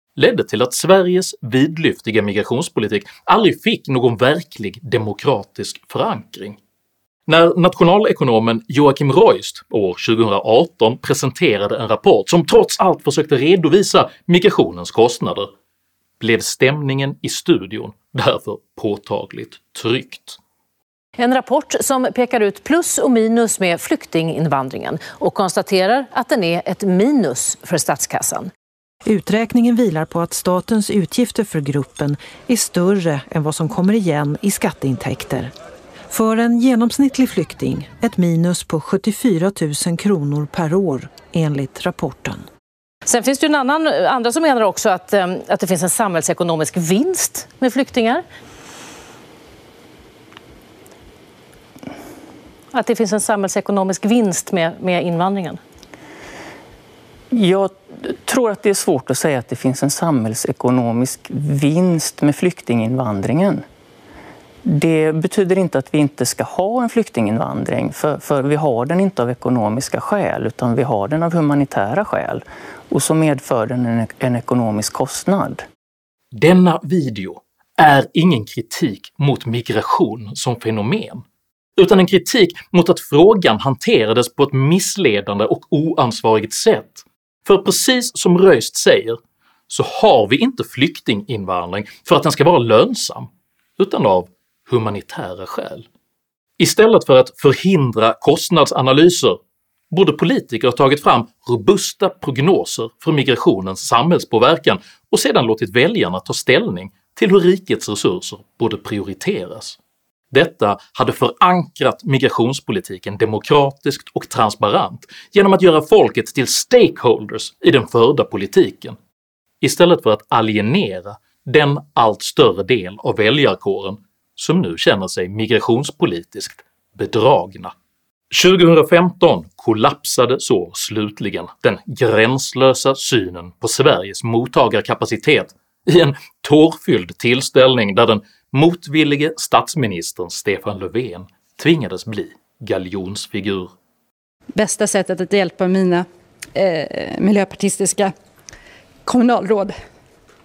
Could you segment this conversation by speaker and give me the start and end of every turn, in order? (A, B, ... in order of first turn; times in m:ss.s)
0:00.2-0:06.6 A
0:07.3-0:15.5 A
0:16.2-0:20.4 A
0:21.2-0:28.5 B
0:29.0-0:35.5 C
0:36.1-0:42.5 C
0:43.1-0:48.2 B
0:52.7-0:55.6 B
0:57.3-1:03.6 D
1:04.6-1:15.6 D
1:16.3-1:21.2 A
1:21.8-1:29.2 A
1:29.7-1:35.9 A
1:36.6-1:39.4 A
1:39.9-1:49.8 A
1:50.3-1:59.0 A
1:59.6-2:07.7 A
2:08.3-2:23.7 A
2:24.6-2:26.0 E
2:26.6-2:28.1 E
2:29.1-2:29.7 E